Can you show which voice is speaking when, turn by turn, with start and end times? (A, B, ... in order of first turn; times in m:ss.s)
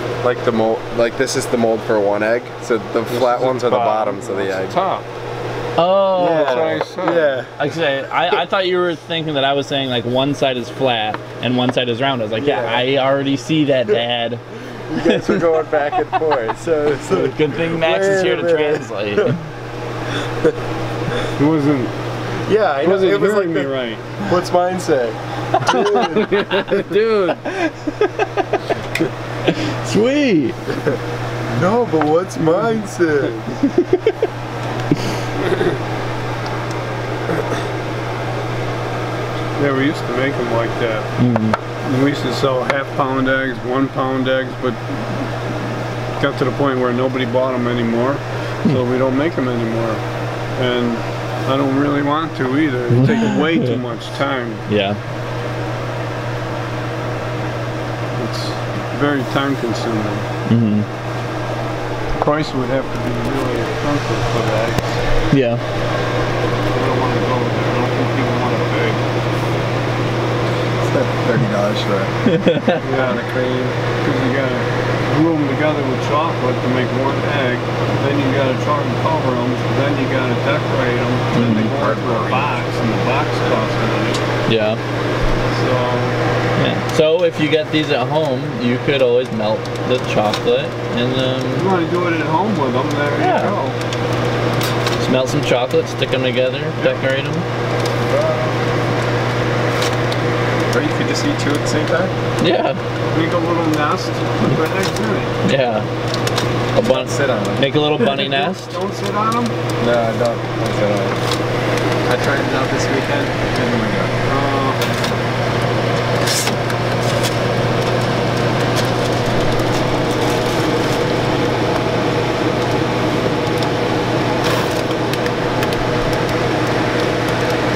0:00.2-0:04.8 A
0:03.1-0:05.1 B
0:05.8-0:06.8 C
0:06.1-0:07.5 A
0:06.4-0:07.4 B
0:07.6-0:15.4 C
0:12.4-0:12.8 A
0:14.9-0:19.3 A
0:17.1-0:19.4 C
0:21.4-0:21.9 B
0:22.4-0:26.4 A
0:22.8-0:24.1 B
0:25.6-0:26.9 B
0:25.6-0:28.4 C
0:29.4-0:30.6 C
0:31.5-0:33.5 A
0:35.4-0:35.8 B
0:39.6-0:41.1 B
0:41.2-0:41.6 C
0:41.8-0:45.3 B
0:46.2-0:50.0 B
0:50.6-0:54.6 B
0:52.9-0:53.7 C
0:54.7-0:55.0 C
0:58.2-1:00.3 B
1:00.5-1:00.9 C
1:02.2-1:05.0 B
1:05.3-1:05.6 C
1:06.7-1:09.0 B
1:10.8-1:12.1 A
1:12.2-1:12.8 C
1:12.8-1:13.8 A
1:12.8-1:13.2 B
1:14.0-1:24.2 B
1:21.3-1:21.7 C
1:21.3-1:22.5 A
1:24.5-1:24.8 C
1:25.5-1:26.2 B
1:26.6-1:31.7 C
1:31.6-1:33.8 B
1:33.2-1:33.6 C
1:35.0-1:37.4 C
1:38.1-1:38.6 A
1:40.7-1:42.1 A
1:42.4-1:42.8 C
1:43.1-1:45.3 B
1:45.4-1:45.9 C
1:46.7-1:48.8 C
1:46.8-1:47.6 A
1:48.1-1:49.6 B
1:49.8-1:51.2 A
1:52.0-1:54.1 A
1:54.2-1:54.8 B